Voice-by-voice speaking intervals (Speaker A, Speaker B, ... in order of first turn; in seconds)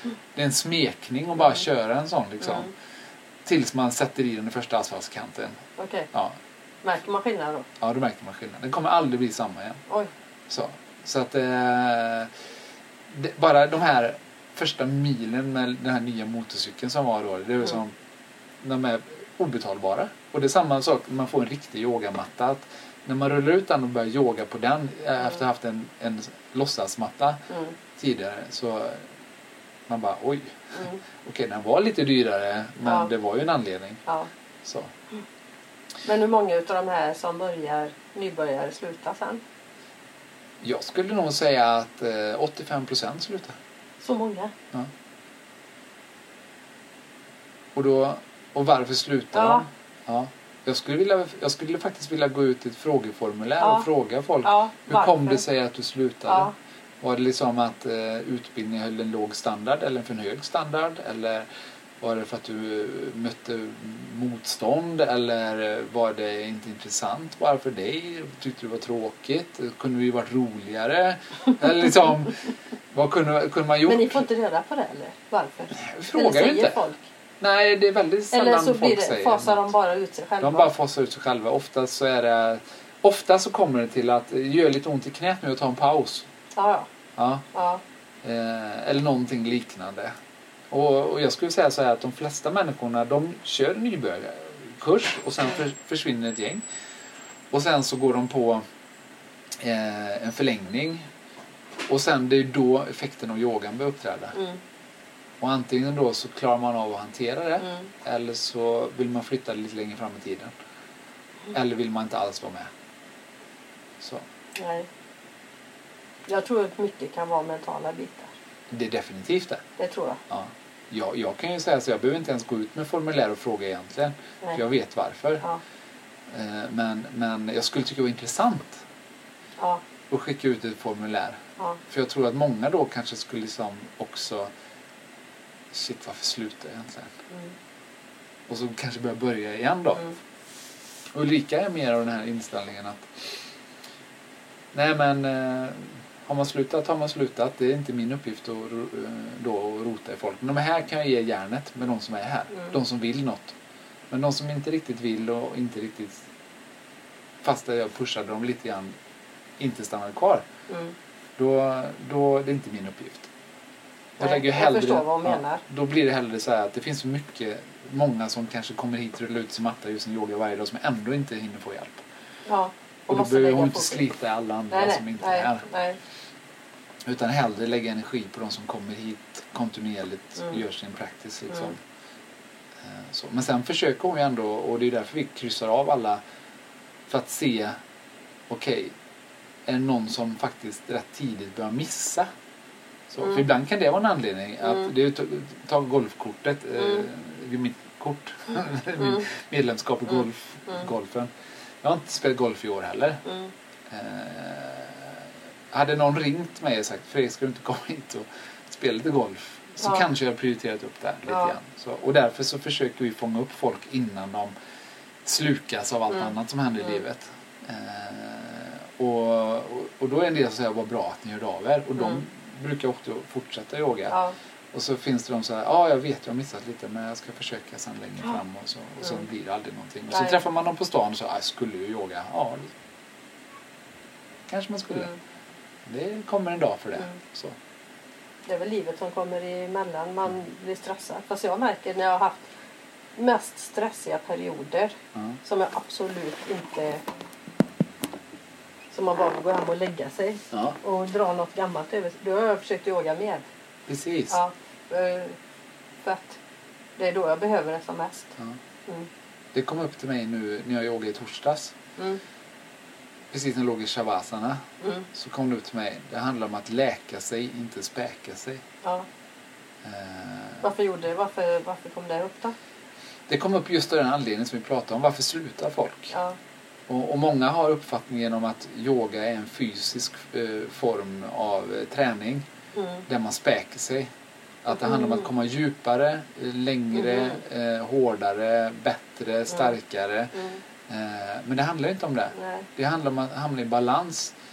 Speaker A: 0.3-2.7, 3.5-5.6, 6.1-6.4, 7.8-9.8, 10.5-12.3, 13.1-17.9, 18.6-27.4, 28.0-29.1, 29.9-34.0, 34.6-34.9, 40.6-43.6, 47.8-61.5, 62.0-74.2, 75.7-76.8, 77.4-79.7, 80.4-86.3, 87.2-87.5, 88.2-90.1, 90.7-96.6, 97.5-98.6, 99.6-101.1, 101.9-104.4, 105.4-110.5, 111.5-112.7, 118.7-119.6, 120.3-125.5, 126.3-128.8, 130.1-134.5, 135.7-137.2, 138.5-140.1, 141.1-143.1, 144.7-153.6, 154.1-156.2, 157.4-158.9, 159.6-160.5, 161.4-163.3, 164.2-172.1, 173.1-175.7, 177.1-181.8, 182.8-186.2, 187.1-187.8, 188.5-188.9, 189.7-192.3, 193.1-201.3, 201.8-203.2, 203.9-214.5, 215.2-224.2, 224.7-232.7, 234.5-235.1, 235.9-237.6, 250.5-250.8, 253.9-254.4, 259.5-261.8, 263.3-268.6, 269.8-270.6, 273.3-276.1, 276.9-282.5, 283.1-284.1, 284.6-294.3
Speaker B: 5.8-6.1, 6.8-7.7, 27.5-27.8, 30.8-31.0, 32.8-33.1, 36.0-39.4, 44.0-44.5, 49.3-49.6, 53.6-53.9, 54.4-55.4, 56.3-56.5, 73.9-77.1, 78.3-80.7, 86.5-86.9, 87.5-87.8, 104.3-104.6, 107.6-107.9, 114.6-114.9, 116.3-118.3, 119.8-120.2, 160.7-160.9, 164.2-165.6, 172.5-174.0, 174.7-176.0, 196.8-197.0, 199.0-199.2, 203.2-203.5, 209.8-210.1, 224.1-224.3, 230.1-230.4, 238.5-242.5, 243.2-247.0, 248.9-253.5, 254.3-255.4, 256.0-256.4, 257.0-258.4, 264.8-265.1, 270.6-272.6, 276.1-276.4, 282.8-283.0, 292.4-292.7